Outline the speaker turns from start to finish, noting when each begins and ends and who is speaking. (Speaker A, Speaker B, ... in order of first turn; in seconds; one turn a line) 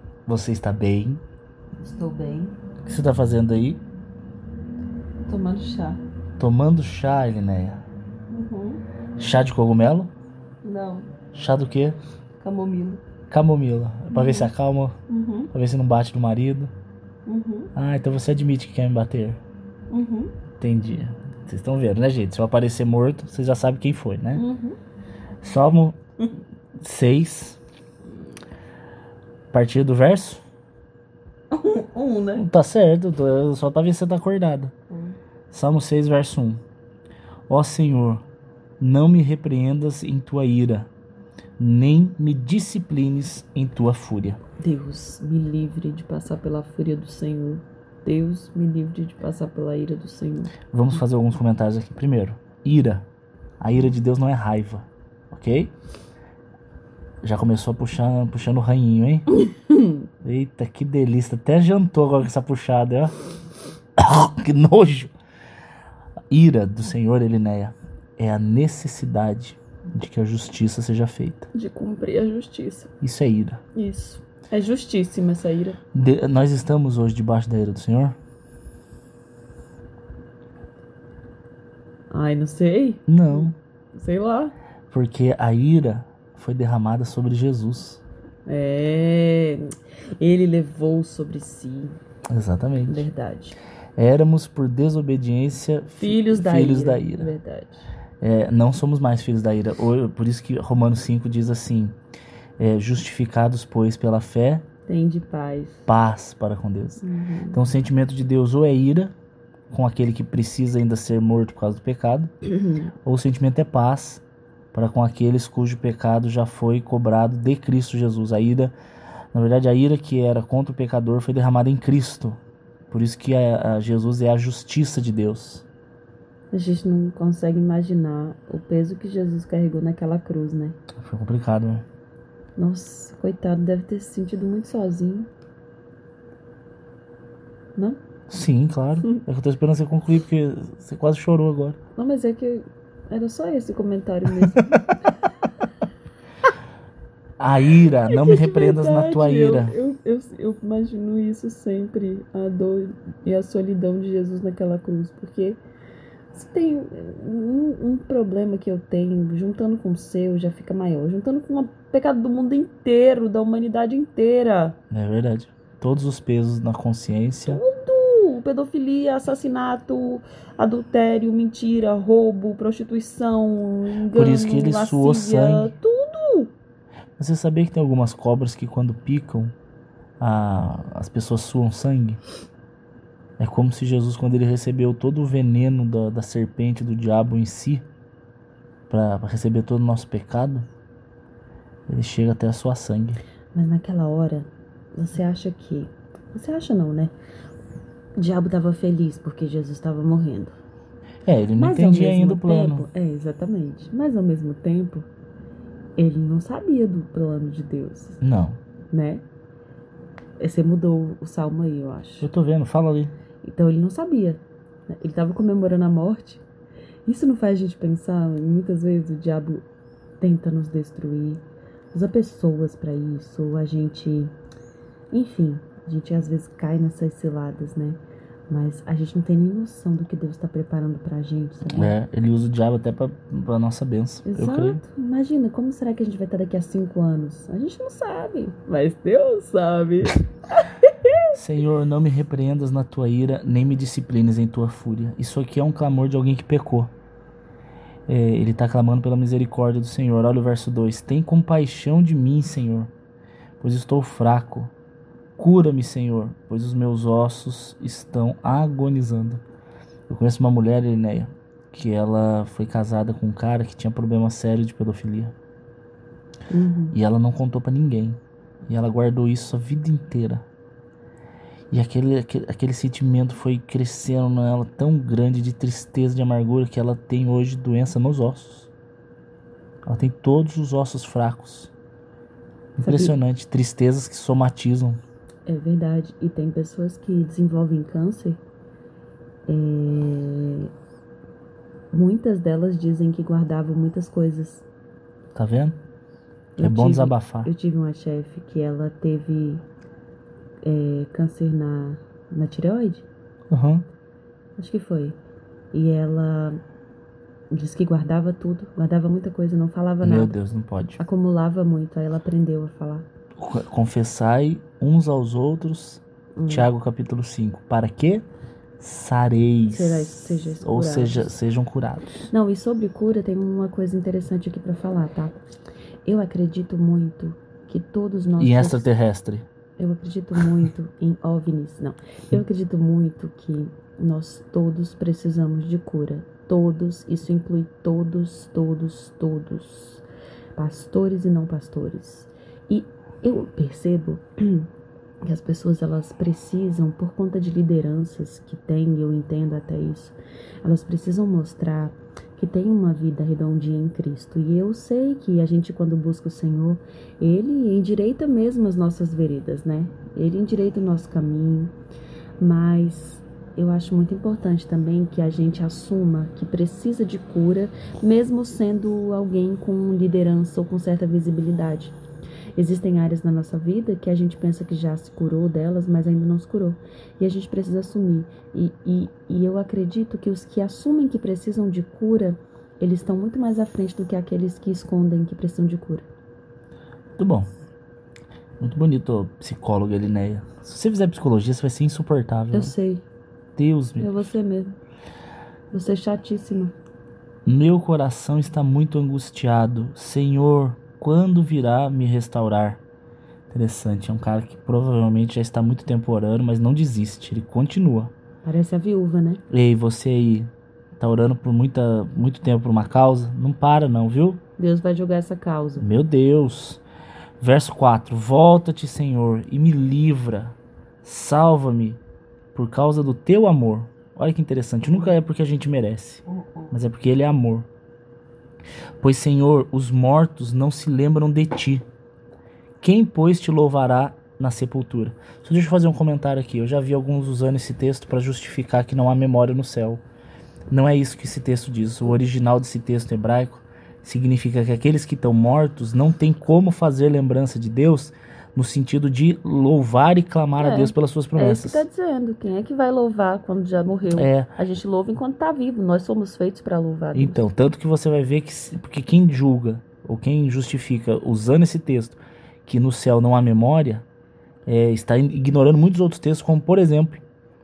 Speaker A: 0.3-1.2
Speaker B: 1.8-2.6
Speaker A: 2.8-3.8
Speaker B: 5.3-6.0
Speaker A: 6.4-7.8
Speaker B: 8.3-8.8
Speaker A: 9.2-10.1
Speaker B: 10.6-11.1
Speaker A: 11.3-12.0
Speaker B: 12.4-13.0
Speaker A: 13.3-15.0
Speaker B: 14.1-14.5
Speaker B: 15.1-15.5
Speaker A: 15.5-16.7
Speaker B: 17.3-17.7
Speaker A: 17.8-19.4
Speaker B: 19.9-20.4
Speaker A: 20.6-24.4
Speaker B: 24.4-24.8
Speaker A: 25.4-26.0
Speaker A: 26.8-27.6
Speaker A: 29.5-30.4
Speaker B: 31.5-32.5
Speaker A: 32.4-34.7
Speaker A: 35.5-36.6
Speaker A: 37.5-38.2
Speaker A: 38.8-40.9
Speaker A: 41.6-44.4
Speaker B: 44.6-50.6
Speaker A: 50.7-53.0
Speaker A: 53.6-55.7
Speaker A: 57.2-59.3
Speaker A: 60.2-63.1
Speaker A: 64.0-65.1
Speaker A: 66.3-71.5
Speaker B: 71.5-72.9
Speaker A: 73.0-73.6
Speaker B: 73.8-75.8
Speaker A: 75.9-78.2
Speaker B: 82.1-84.5
Speaker A: 83.1-83.5
Speaker A: 84.9-88.0
Speaker B: 88.5-92.0
Speaker A: 92.3-93.1
Speaker B: 92.9-93.6
Speaker A: 94.0-97.3
Speaker B: 96.0-97.9
Speaker A: 98.2-102.0
Speaker A: 102.6-104.7
Speaker B: 104.9-105.9
Speaker A: 105.9-109.1
Speaker B: 107.0-107.6
Speaker A: 109.7-112.3
Speaker B: 112.5-112.9
Speaker A: 113.1-114.2
Speaker A: 114.7-118.7
Speaker A: 119.3-122.4
Speaker A: 122.9-125.7
Speaker B: 126.5-130.8
Speaker A: 131.0-131.8
Speaker B: 132.6-135.3
Speaker A: 138.3-141.8
Speaker B: 142.0-144.9
Speaker A: 144.4-144.8
Speaker A: 147.4-149.7
Speaker B: 147.8-155.6
Speaker B: 156.3-164.8
Speaker A: 164.9-167.6
Speaker B: 167.5-176.5
Speaker A: 174.1-175.7
Speaker A: 177.2-179.5
Speaker A: 180.2-182.2
Speaker A: 183.4-187.8
Speaker A: 188.9-190.7
Speaker A: 191.9-193.2
Speaker B: 193.5-197.1
Speaker B: 198.2-200.6
Speaker A: 201.3-202.9
Speaker B: 201.6-205.1
Speaker B: 206.0-208.2
Speaker A: 208.2-208.6
Speaker B: 208.9-209.2
Speaker B: 210.4-212.3
Speaker A: 212.2-213.1
Speaker B: 213.4-214.4
Speaker B: 214.9-216.4
Speaker B: 217.1-219.7
Speaker B: 220.2-224.3
Speaker B: 225.1-228.0
Speaker B: 228.5-232.0
Speaker A: 231.7-234.8
Speaker B: 234.3-241.2
Speaker A: 241.3-246.9
Speaker A: 248.1-252.9
Speaker A: 253.6-254.7
Speaker A: 255.4-259.4
Speaker A: 260.1-265.3
Speaker B: 266.5-267.0
Speaker A: 266.9-270.4
Speaker A: 271.7-278.7
Speaker A: 279.9-281.7
Speaker A: 282.8-285.0
Speaker B: 282.8-283.1
Speaker B: 285.5-288.4
Speaker B: 289.5-290.7
Speaker B: 291.9-294.6
Speaker A: 295.4-295.8
Speaker B: 296.6-299.6
Speaker A: 296.6-297.5
Speaker B: 300.6-303.1
Speaker A: 303.5-303.8
Speaker B: 304.6-305.2
Speaker B: 305.7-306.6
Speaker B: 307.5-310.4
Speaker A: 310.0-311.0
Speaker B: 311.0-313.1
Speaker A: 313.4-318.2
Speaker B: 316.4-316.7
Speaker A: 318.8-322.3
Speaker B: 319.7-321.3
Speaker B: 322.3-325.4
Speaker B: 326.1-328.9
Speaker A: 328.4-329.4
Speaker B: 329.8-340.0
Speaker B: 340.6-344.7
Speaker B: 345.3-361.7
Speaker B: 362.4-372.0
Speaker B: 372.6-386.1
Speaker A: 387.2-387.5
Speaker A: 388.6-392.7
Speaker B: 392.5-393.0
Speaker A: 393.6-394.3
Speaker B: 394.0-394.8
Speaker B: 395.7-396.8
Speaker A: 397.5-402.8
Speaker A: 403.5-408.1
Speaker B: 408.4-409.4
Speaker A: 409.5-414.4
Speaker B: 414.6-415.9
Speaker A: 415.8-416.8
Speaker A: 417.4-422.0
Speaker A: 422.5-427.7
Speaker A: 429.0-431.8
Speaker A: 432.8-440.0
Speaker A: 440.7-451.8
Speaker B: 450.6-457.4
Speaker A: 454.1-454.5
Speaker A: 457.1-464.1
Speaker A: 464.7-467.2